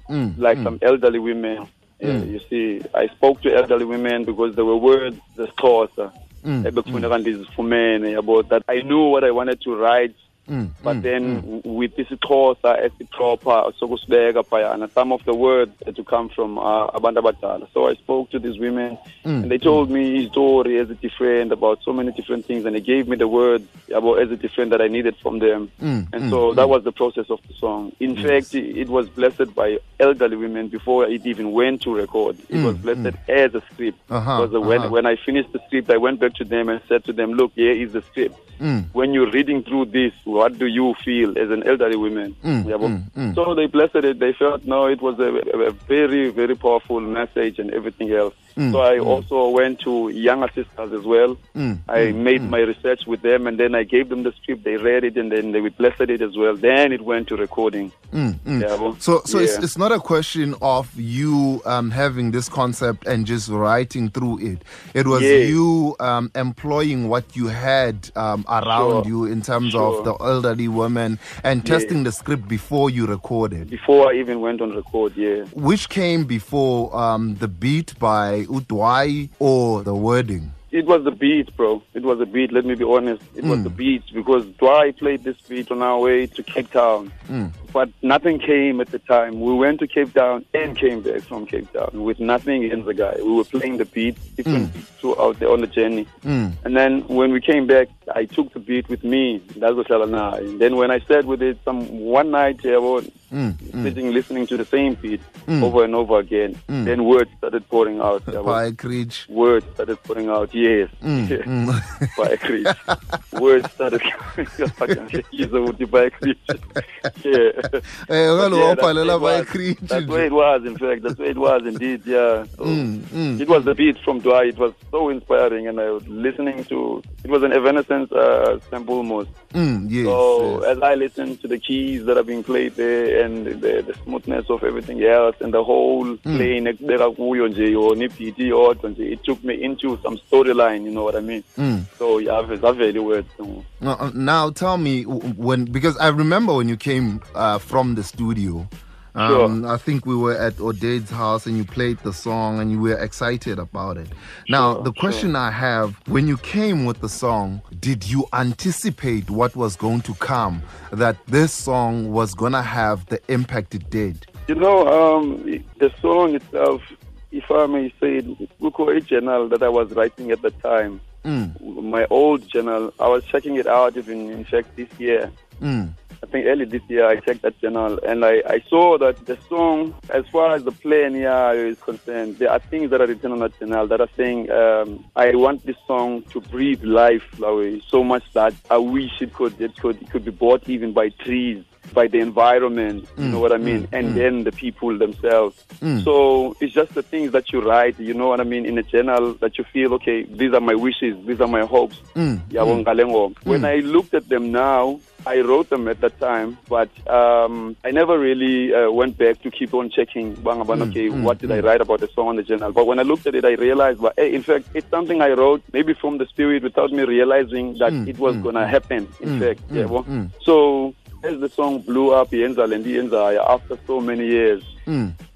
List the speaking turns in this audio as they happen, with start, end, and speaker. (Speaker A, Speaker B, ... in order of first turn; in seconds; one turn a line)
Speaker A: 0.1-0.7
Speaker B: 0.4-6.1
Speaker A: 2.0-2.3
Speaker A: 6.4-7.1
Speaker B: 6.6-10.2
Speaker A: 10.5-11.4
Speaker B: 10.8-38.4
Speaker A: 19.2-19.8
Speaker A: 25.8-26.7
Speaker A: 28.2-28.4
Speaker A: 32.5-33.1
Speaker A: 34.1-34.9
Speaker A: 38.6-38.9
Speaker B: 38.9-57.9
Speaker A: 42.4-43.4
Speaker A: 48.6-49.2
Speaker A: 51.5-52.5
Speaker A: 58.1-73.7
Speaker B: 58.6-59.6
Speaker B: 65.1-65.6
Speaker B: 68.6-69.1
Speaker B: 69.6-70.1
Speaker B: 71.6-72.0
Speaker B: 73.7-75.5
Speaker A: 75.5-80.5
Speaker B: 80.7-96.1
Speaker A: 83.4-83.8
Speaker A: 87.3-87.5
Speaker A: 94.5-94.7
Speaker A: 96.2-96.6
Speaker B: 96.6-103.1
Speaker A: 103.3-104.0
Speaker B: 103.7-108.6
Speaker A: 105.5-105.7
Speaker A: 106.7-106.9
Speaker A: 108.3-109.3
Speaker B: 109.3-111.5
Speaker A: 111.0-113.2
Speaker B: 112.1-112.8
Speaker B: 113.3-129.3
Speaker A: 118.0-120.3
Speaker A: 122.6-123.5
Speaker A: 129.5-130.6
Speaker B: 130.0-141.4
Speaker A: 141.6-141.9
Speaker B: 142.0-143.7
Speaker A: 143.8-164.3
Speaker B: 149.2-149.6
Speaker B: 154.5-155.3
Speaker B: 164.5-171.0
Speaker A: 171.2-171.6
Speaker B: 171.6-175.3
Speaker A: 175.6-175.9
Speaker B: 176.2-224.7
Speaker A: 193.2-194.2
Speaker A: 195.8-196.1
Speaker A: 202.2-202.8
Speaker A: 203.4-203.7
Speaker A: 210.7-211.7
Speaker A: 217.9-218.7
Speaker A: 219.2-220.3
Speaker A: 224.9-225.2